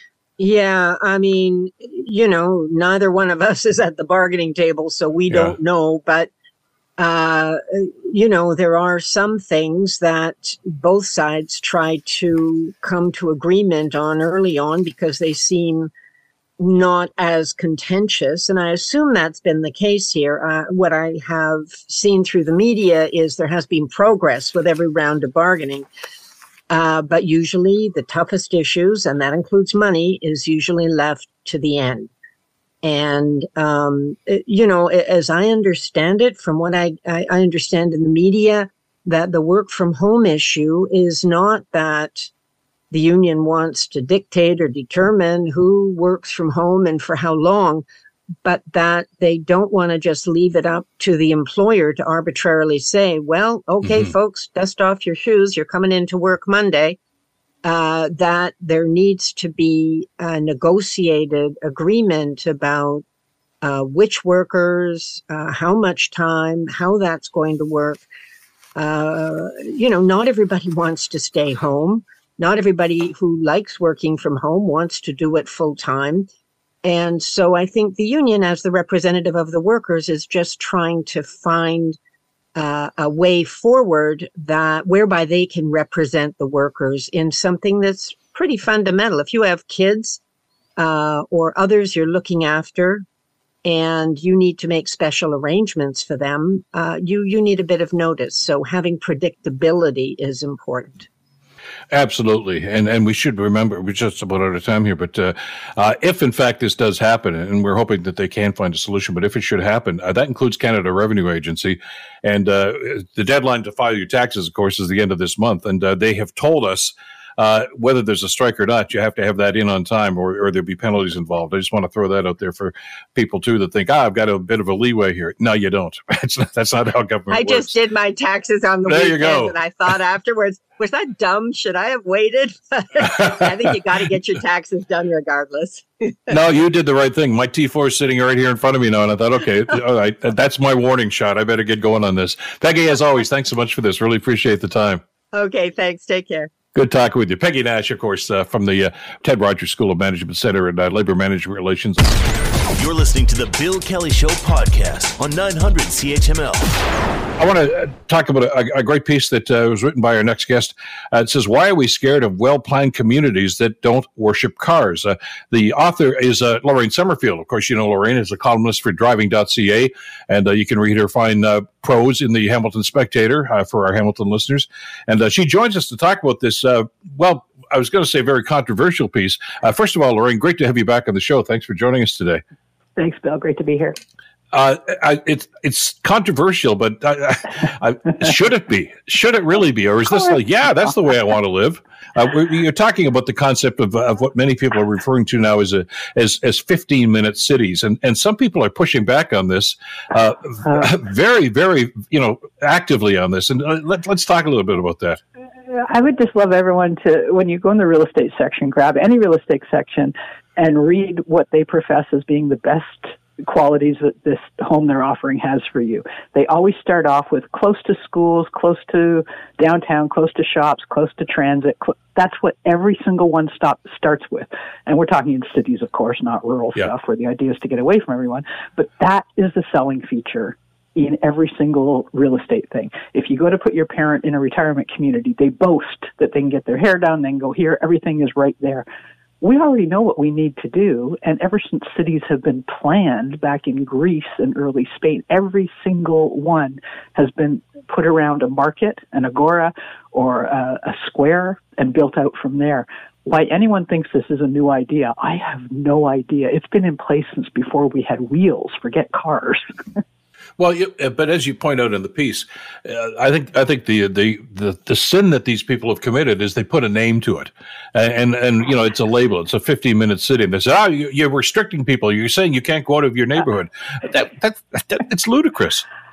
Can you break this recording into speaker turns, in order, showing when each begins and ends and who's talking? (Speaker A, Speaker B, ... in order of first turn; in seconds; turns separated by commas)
Speaker A: 0.4-6.3, Speaker B: 5.3-5.6, Speaker A: 7.0-15.9, Speaker A: 16.6-25.9, Speaker A: 26.7-32.1, Speaker A: 32.8-42.3, Speaker A: 42.9-47.8, Speaker A: 48.4-57.0, Speaker A: 57.6-63.0, Speaker A: 63.6-68.0, Speaker A: 68.8-76.3, Speaker A: 76.8-82.0, Speaker A: 82.6-90.2, Speaker A: 90.8-93.0, Speaker A: 93.6-101.1, Speaker B: 101.9-127.7, Speaker A: 127.3-136.4, Speaker B: 128.9-129.6, Speaker B: 136.3-145.0, Speaker A: 145.3-146.5, Speaker B: 146.8-152.2, Speaker C: 152.8-156.7, Speaker B: 157.4-182.4, Speaker D: 183.0-184.0, Speaker B: 184.5-205.2, Speaker D: 205.7-238.9, Speaker D: 239.4-259.6, Speaker B: 260.6-275.9